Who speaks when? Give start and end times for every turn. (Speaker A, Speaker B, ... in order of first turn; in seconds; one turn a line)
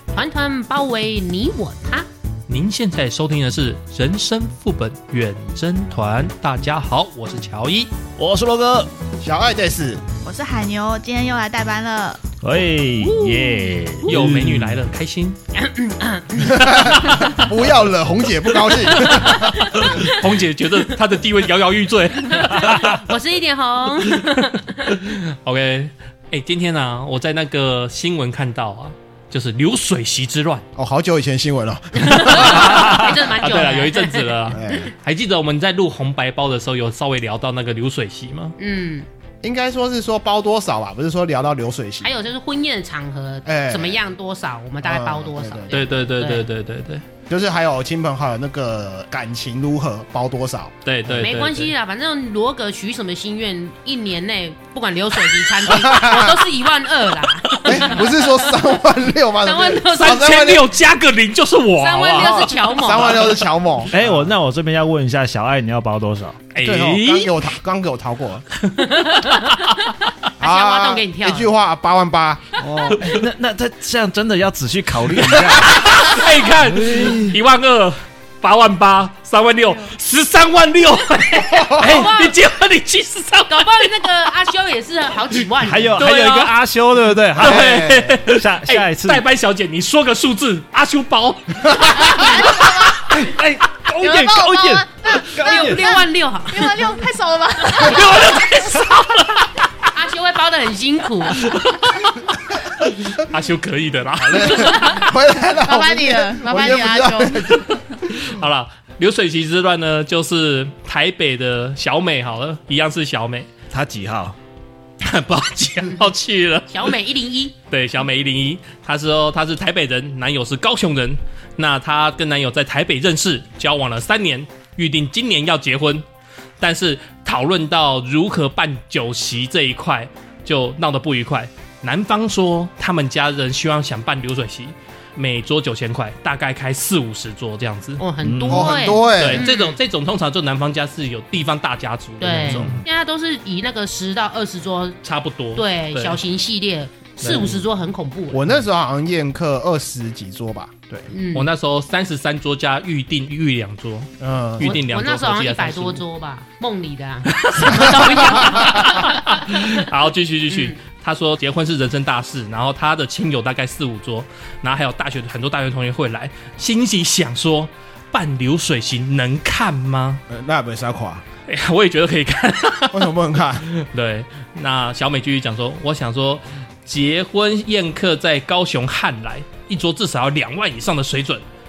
Speaker A: 0.1-2.1
Speaker B: 2.5-7.9
Speaker C: 8.2-8.9
Speaker D: 9.2-10.0
Speaker E: 10.2-12.2
Speaker C: 12.4-14.8
Speaker A: 13.0-13.8
Speaker B: 14.0-15.4
Speaker A: 15.5-17.4
Speaker D: 16.3-19.5
Speaker B: 18.9-23.0
Speaker A: 18.9-20.2
Speaker A: 22.2-24.9
Speaker C: 22.6-22.9
Speaker B: 24.9-30.7
Speaker D: 30.8-32.8
Speaker A: 31.9-34.9
Speaker B: 32.2-38.5
Speaker D: 34.5-34.9
Speaker A: 38.6-39.1
Speaker D: 39.4-42.1
Speaker A: 42.0-46.5
Speaker D: 43.5-44.0
Speaker D: 44.8-45.8
Speaker B: 45.7-47.0
Speaker D: 47.3-51.3
Speaker B: 50.8-51.7
Speaker A: 51.2-58.2
Speaker D: 55.7-56.4
Speaker B: 57.5-57.8
Speaker D: 57.6-60.7
Speaker A: 59.4-60.4
Speaker B: 59.9-63.2
Speaker A: 61.8-63.4
Speaker D: 62.2-64.3
Speaker C: 63.9-66.4
Speaker B: 66.5-67.4
Speaker D: 66.6-68.5
Speaker B: 68.6-69.7
Speaker A: 68.8-71.5
Speaker D: 70.4-72.5
Speaker C: 72.6-77.4
Speaker B: 75.1-84.3
Speaker A: 81.7-82.4
Speaker A: 83.5-86.1
Speaker C: 85.6-89.2
Speaker B: 86.0-86.5
Speaker D: 87.4-88.1
Speaker B: 87.4-92.3
Speaker E: 92.0-93.1
Speaker C: 93.0-96.0
Speaker E: 94.0-95.8
Speaker A: 95.0-96.8
Speaker E: 96.5-98.3
Speaker B: 97.8-99.5
Speaker A: 99.9-101.4
Speaker B: 101.3-104.9
Speaker D: 104.2-108.2
Speaker A: 104.4-105.1
Speaker E: 105.6-107.6
Speaker B: 107.7-113.5
Speaker C: 113.7-114.4
Speaker B: 115.0-116.9
Speaker A: 116.7-117.5
Speaker B: 117.7-126.1
Speaker B: 126.6-138.0
Speaker A: 138.0-139.8
Speaker C: 138.2-138.8
Speaker D: 138.4-139.4
Speaker B: 139.1-142.8
Speaker A: 142.2-145.0
Speaker D: 142.4-142.8
Speaker B: 145.0-146.2
Speaker A: 145.5-148.5
Speaker B: 147.2-147.6
Speaker D: 148.3-151.0
Speaker B: 151.0-156.0
Speaker A: 151.1-151.5
Speaker D: 154.2-154.8
Speaker A: 154.6-159.8
Speaker B: 157.3-170.2
Speaker A: 160.5-160.8
Speaker D: 170.3-171.2
Speaker B: 171.5-181.4
Speaker D: 172.9-173.7